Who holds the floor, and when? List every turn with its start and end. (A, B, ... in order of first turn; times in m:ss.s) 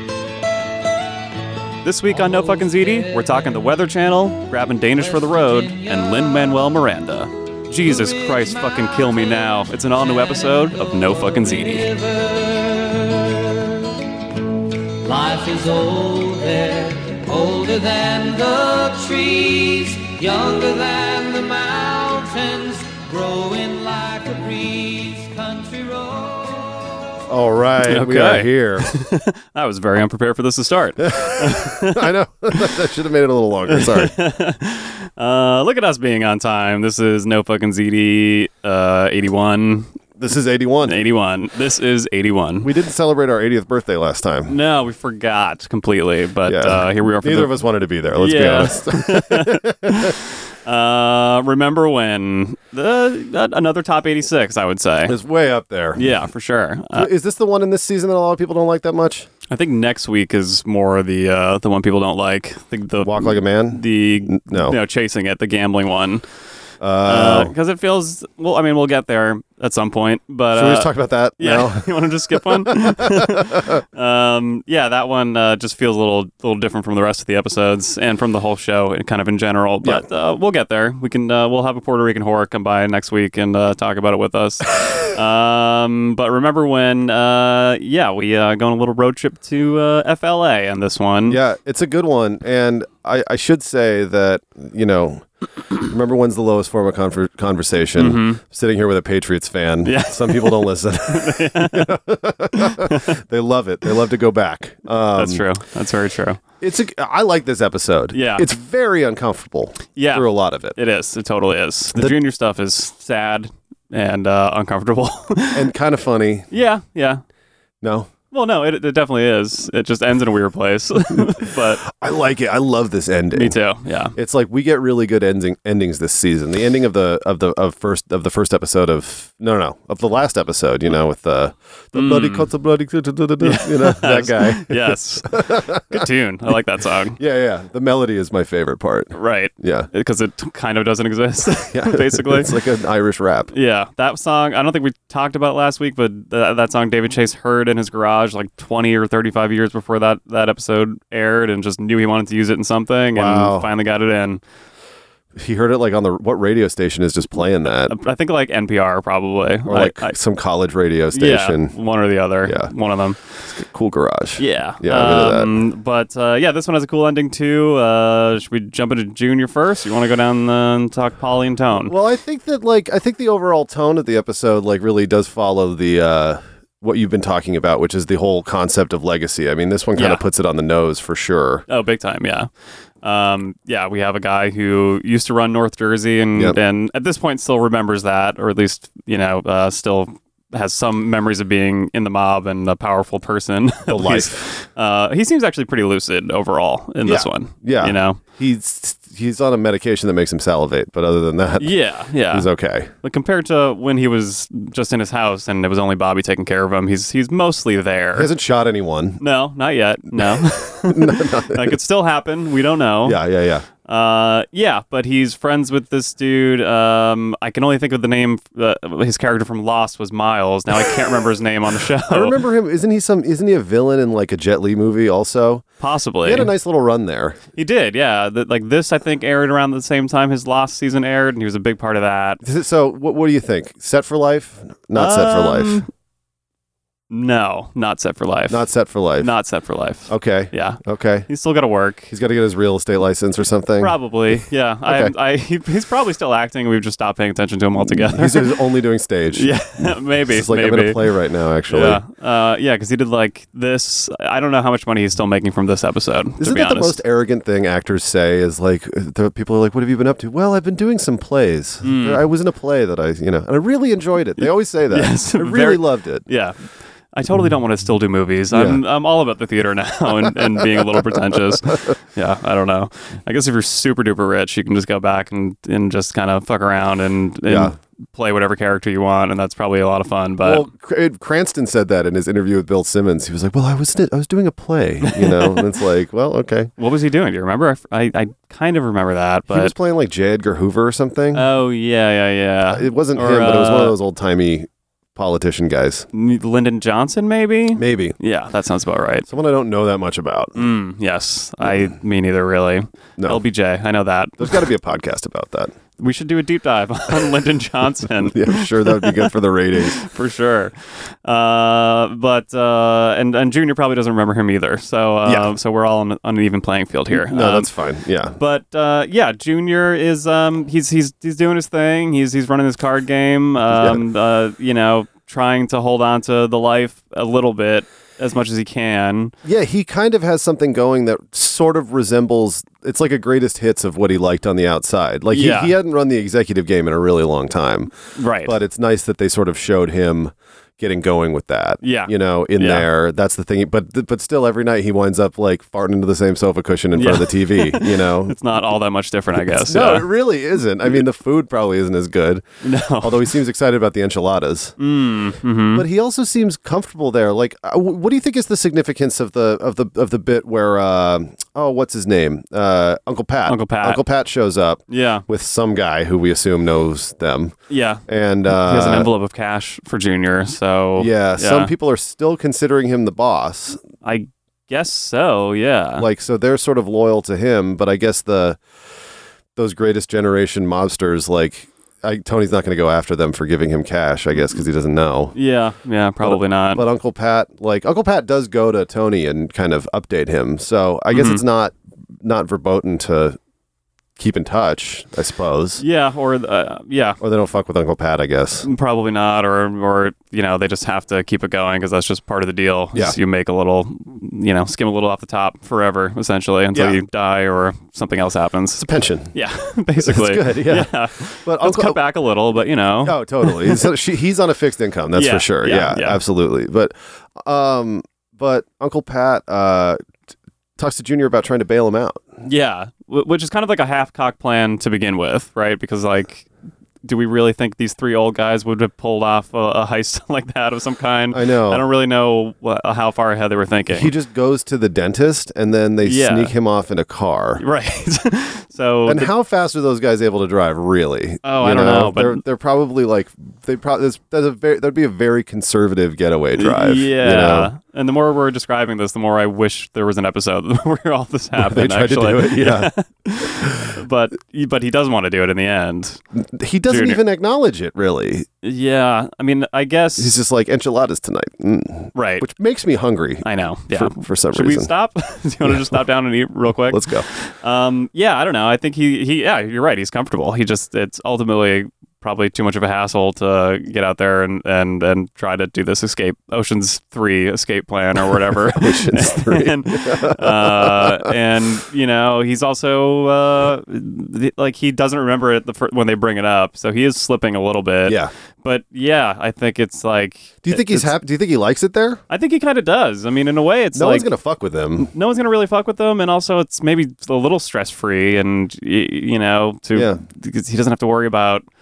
0:01.8-0:11.9 A
0:11.7-0:13.6 B
0:15.0-0:26.6 B
0:27.3-0:28.9 C
0:27.8-0:32.1 A
0:31.0-0:34.1 C
0:33.7-0:39.9 A
0:40.2-0:41.0 C
0:40.8-0:42.7 A
0:42.6-0:44.5 C
0:44.5-0:47.6 A
0:46.5-0:50.2 C
0:48.2-0:55.2 A
0:55.1-0:56.1 C
0:55.9-0:57.1 A
0:56.9-0:59.3 C
0:59.5-1:06.2 A
1:03.0-1:04.8 C
1:06.8-1:07.5 C
1:07.0-1:31.4 A
1:10.5-1:13.8 C
1:31.3-1:35.2 C
1:35.8-1:45.4 C
1:38.0-1:38.4 A
1:39.8-1:41.9 A
1:42.5-1:43.1 A
1:45.1-1:46.4 A
1:46.6-1:50.8 C
1:48.1-1:48.4 A
1:49.9-1:55.6 A
1:55.5-1:56.5 C
1:56.5-1:57.2 A
1:57.8-1:58.1 C
1:58.3-2:01.8 A
2:01.3-2:03.6 C
2:03.3-2:04.1 A
2:04.1-2:16.0 C
2:11.9-2:12.5 A
2:13.4-2:17.2 A
2:17.2-2:19.9 C
2:19.1-2:22.5 A
2:21.7-2:23.5 C
2:23.5-2:34.4 A
2:33.1-2:33.7 C
2:35.4-2:37.9 C
2:37.9-2:40.2 A
2:39.7-2:41.7 C
2:41.1-2:43.2 A
2:42.4-2:42.7 C
2:43.5-2:45.5 C
2:44.4-2:51.9 A
2:51.9-3:01.6 C
2:59.9-3:00.2 A
3:01.7-3:02.5 A
3:03.0-3:18.2 A
3:13.9-3:14.5 C
3:17.0-3:21.7 C
3:21.6-3:22.5 A
3:22.3-3:22.9 C
3:23.0-3:28.3 A
3:28.1-3:29.2 C
3:29.2-3:33.2 A
3:30.9-3:31.8 C
3:33.0-3:33.6 C
3:33.8-3:42.4 A
3:42.1-3:45.6 C
3:45.8-3:46.5 A
3:46.2-3:47.4 C
3:47.6-3:52.4 A
3:52.4-3:55.8 C
3:54.9-3:55.9 A
3:57.1-3:58.6 A
3:58.5-3:59.3 C
3:59.2-4:02.1 A
4:00.1-4:01.3 C
4:02.1-4:03.9 C
4:03.8-4:08.6 A
4:04.8-4:05.1 C
4:07.9-4:09.5 C
4:09.3-4:11.0 A
4:10.3-4:12.0 C
4:11.7-4:17.0 A
4:16.4-4:26.2 C
4:21.8-4:22.2 A
4:24.4-4:26.6 A
4:27.1-4:40.7 A
4:28.5-4:28.8 C
4:37.5-4:37.7 C
4:40.4-4:46.7 C
4:45.2-4:45.6 A
4:46.8-4:49.7 A
4:49.5-4:51.5 C
4:51.3-4:54.0 A
4:52.7-4:56.0 C
4:56.1-4:59.3 A
4:57.8-4:58.2 C
4:59.3-5:00.7 C
5:00.5-5:04.6 A
5:04.4-5:05.7 C
5:06.0-5:17.7 A
5:08.2-5:10.0 C
5:17.1-5:18.4 C
5:18.4-5:29.3 A
5:23.7-5:24.0 C
5:29.4-5:37.9 C
5:35.3-5:35.7 A
5:38.2-5:38.6 A
5:38.4-5:48.4 C
5:41.8-5:42.9 A
5:46.9-5:50.1 A
5:49.4-5:52.4 C
5:52.6-5:53.3 A
5:53.0-5:54.8 C
5:54.8-5:55.8 A
5:55.7-6:09.1 C
6:03.4-6:04.0 A
6:04.9-6:05.2 A
6:07.7-6:11.7 A
6:11.0-6:13.8 C
6:14.0-6:16.0 A
6:16.0-6:18.6 C
6:19.6-6:25.3 C
6:25.3-6:26.8 A
6:26.2-6:33.4 C
6:31.1-6:31.4 A
6:34.2-6:35.8 C
6:35.8-6:37.2 A
6:37.2-6:38.7 C
6:38.6-6:48.8 A
6:46.7-6:47.0 C
6:48.8-6:49.4 C
6:49.3-6:53.8 A
6:50.0-6:52.0 C
6:53.0-7:00.0 C
6:55.1-6:56.2 A
7:00.8-7:02.2 C
7:02.4-7:06.5 A
7:07.0-7:14.1 A
7:11.3-7:11.8 C
7:13.9-7:17.6 C
7:16.0-7:16.5 A
7:17.6-7:19.3 A
7:19.0-7:27.7 C
7:21.4-7:22.4 A
7:26.6-7:36.2 A
7:31.6-7:32.9 C
7:33.4-7:33.9 C
7:36.3-7:38.5 C
7:36.9-7:37.2 A
7:38.6-7:40.3 A
7:40.2-7:44.9 C
7:42.1-7:42.5 A
7:43.4-8:11.2 A
7:45.6-7:45.9 C
7:46.9-7:47.3 C
7:58.3-8:01.3 C
8:08.0-8:08.3 C
8:10.6-8:12.2 C
8:12.3-8:14.3 A
8:13.9-8:15.1 C
8:15.0-8:21.6 A
8:19.9-8:20.2 C